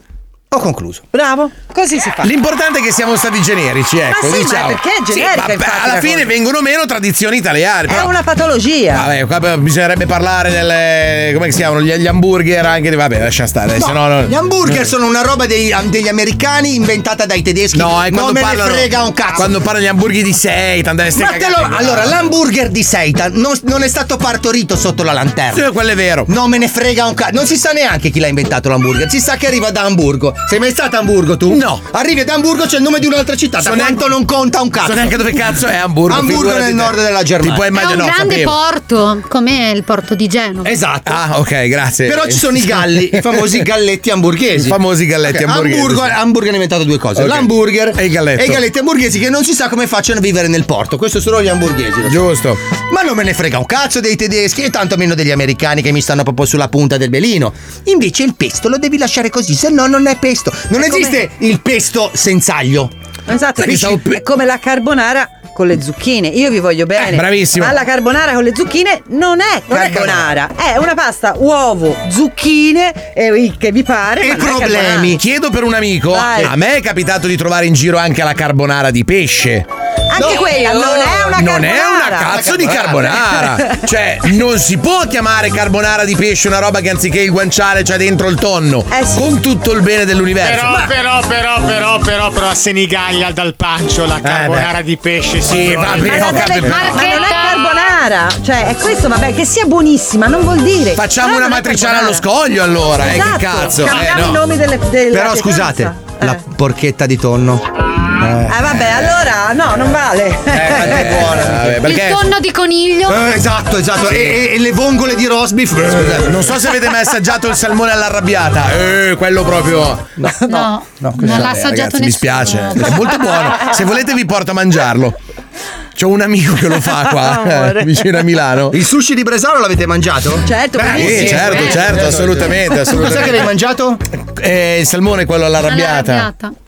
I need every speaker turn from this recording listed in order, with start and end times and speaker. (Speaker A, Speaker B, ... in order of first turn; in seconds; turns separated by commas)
Speaker A: 0.5-1.1, Speaker B: 1.1-2.3, Speaker C: 2.2-8.1, Speaker B: 4.1-6.3, Speaker B: 7.9-9.1, Speaker C: 8.9-14.8, Speaker A: 13.8-19.5, Speaker C: 17.7-22.2, Speaker A: 21.1-25.6, Speaker C: 25.5-26.3, Speaker A: 26.3-35.2, Speaker C: 31.5-31.8, Speaker C: 33.6-34.1, Speaker C: 34.8-38.5, Speaker A: 36.1-37.7, Speaker D: 37.7-40.7, Speaker A: 40.6-41.2, Speaker C: 41.1-43.5, Speaker A: 42.0-52.3, Speaker C: 44.6-46.1, Speaker C: 47.2-48.6, Speaker C: 52.1-52.6, Speaker A: 52.9-62.9, Speaker B: 60.8-61.2, Speaker B: 63.3-75.2, Speaker C: 63.6-64.2, Speaker C: 67.0-67.8, Speaker A: 69.7-70.2, Speaker C: 69.8-70.1, Speaker A: 74.2-75.2, Speaker C: 75.2-79.7, Speaker B: 76.1-76.5, Speaker B: 80.1-82.4, Speaker A: 80.1-81.3, Speaker C: 81.3-90.9, Speaker A: 82.3-83.2, Speaker B: 88.9-89.3, Speaker E: 90.4-96.5, Speaker C: 94.2-94.6, Speaker C: 95.5-97.0, Speaker B: 96.1-102.2, Speaker D: 96.6-97.9, Speaker C: 101.0-104.4, Speaker B: 103.0-106.4, Speaker A: 105.1-108.8, Speaker B: 108.5-111.5, Speaker C: 110.5-112.3, Speaker A: 110.5-111.8, Speaker D: 111.7-113.3, Speaker A: 113.1-116.4, Speaker C: 114.1-114.4, Speaker C: 115.9-120.1, Speaker A: 120.2-121.7, Speaker D: 120.5-123.4, Speaker C: 121.2-125.2, Speaker C: 126.0-128.8, Speaker B: 127.2-127.9, Speaker A: 128.7-134.0, Speaker B: 130.5-132.0, Speaker C: 130.8-133.5, Speaker C: 134.3-136.3, Speaker D: 135.6-136.5